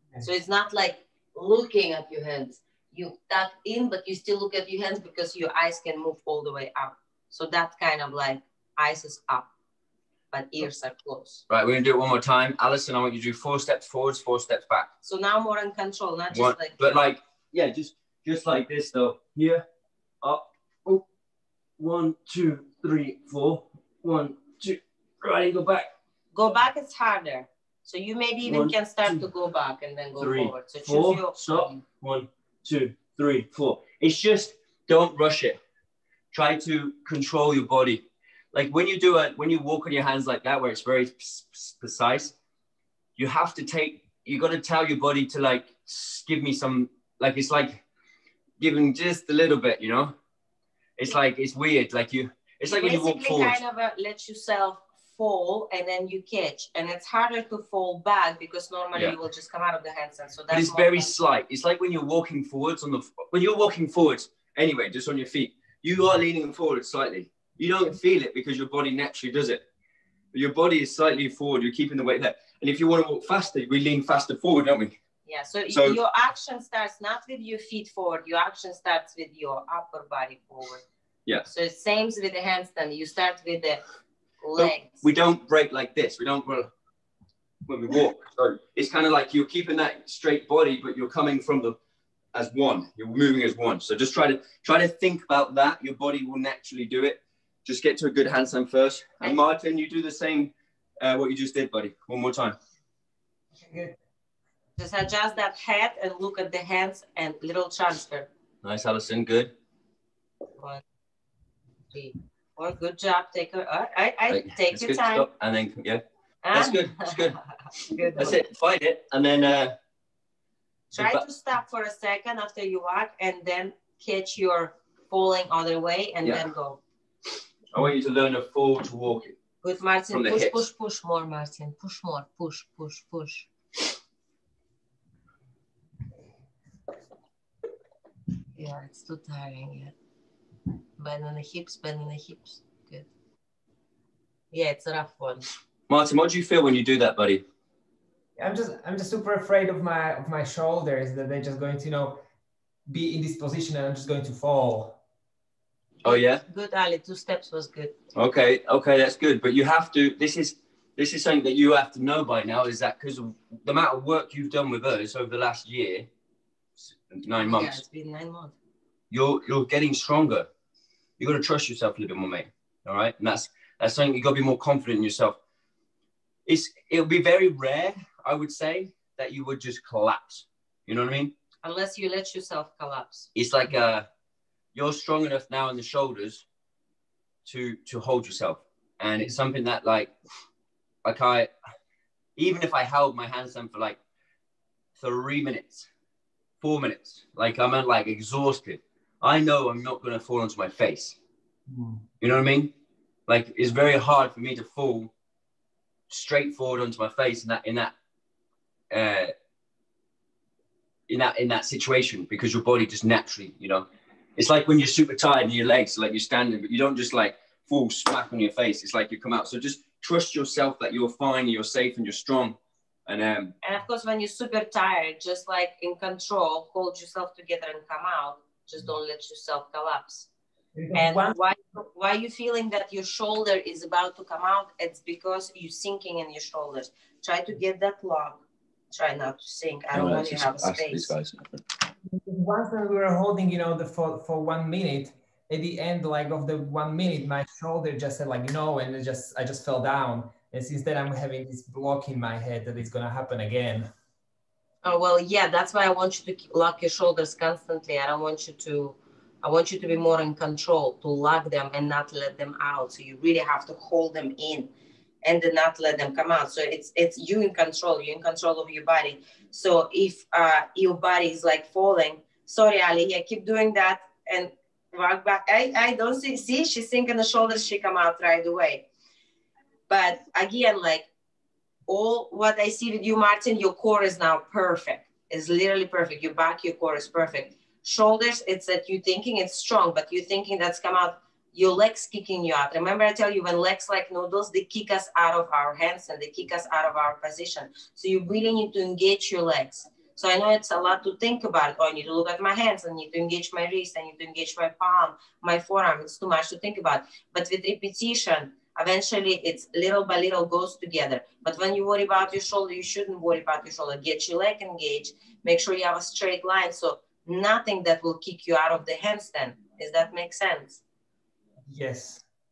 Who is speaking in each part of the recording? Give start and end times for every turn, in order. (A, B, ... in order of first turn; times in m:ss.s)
0:00.2-0:09.5 A
0:10.3-0:11.4 A
0:11.5-0:14.9 B
0:15.0-0:17.0 A
0:16.3-0:19.6 B
0:20.2-0:21.0 B
0:21.8-0:25.9 B
0:26.3-0:31.8 A
0:28.5-0:29.3 B
0:30.2-0:35.6 B
0:36.3-0:42.4 B
0:43.2-0:47.8 B
0:48.6-0:50.1 B
0:51.0-0:53.6 B
0:52.7-1:01.1 A
1:00.5-1:09.7 B
1:10.3-1:14.9 B
1:15.3-1:20.8 A
1:15.7-1:16.0 B
1:21.5-1:23.8 A
1:24.4-1:25.0 A
1:24.6-1:26.7 B
1:27.7-1:31.8 B
1:32.3-1:42.6 B
1:43.6-1:44.0 C
1:44.8-1:48.3 A
1:48.6-1:49.5 B
1:50.6-1:50.8 A
1:51.9-1:55.3 A
1:54.3-1:57.4 B
1:56.4-1:58.4 A
1:58.2-1:59.8 B
2:00.9-2:06.8 A
2:01.0-2:01.2 B
2:07.7-2:09.3 B
2:09.6-2:13.5 A
2:10.1-2:10.6 B
2:18.6-2:19.9 A
2:21.0-2:23.1 A
2:24.5-2:25.5 A
2:25.9-2:27.4 B
2:28.4-2:32.2 C
2:32.9-2:35.0 C
2:36.0-2:36.4 B
2:36.0-2:38.0 A
2:38.2-2:46.1 B
2:47.1-2:47.8 B
2:47.4-2:48.6 A
2:49.1-2:50.5 B
2:51.2-2:55.4 B
2:56.5-3:01.3 B
3:01.6-3:03.3 A
3:03.4-3:04.1 B
3:04.7-3:06.4 B
3:07.4-3:10.1 B
3:11.0-3:11.5 B
3:12.4-3:14.0 B
3:15.0-3:15.9 B
3:16.6-3:21.2 B
3:21.7-3:22.0 C
3:22.2-3:22.7 B
3:23.3-3:25.1 B
3:26.1-3:27.9 B
3:28.9-3:29.3 B
3:31.1-3:43.6 B
3:43.6-3:50.3 A
3:50.8-3:51.4 C
3:51.0-4:01.1 A
3:59.9-4:01.6 B
4:02.1-4:13.9 C
4:14.8-4:24.7 A
4:25.2-4:38.9 A
4:39.9-4:41.1 A
4:41.9-5:20.8 A
5:21.7-5:22.2 C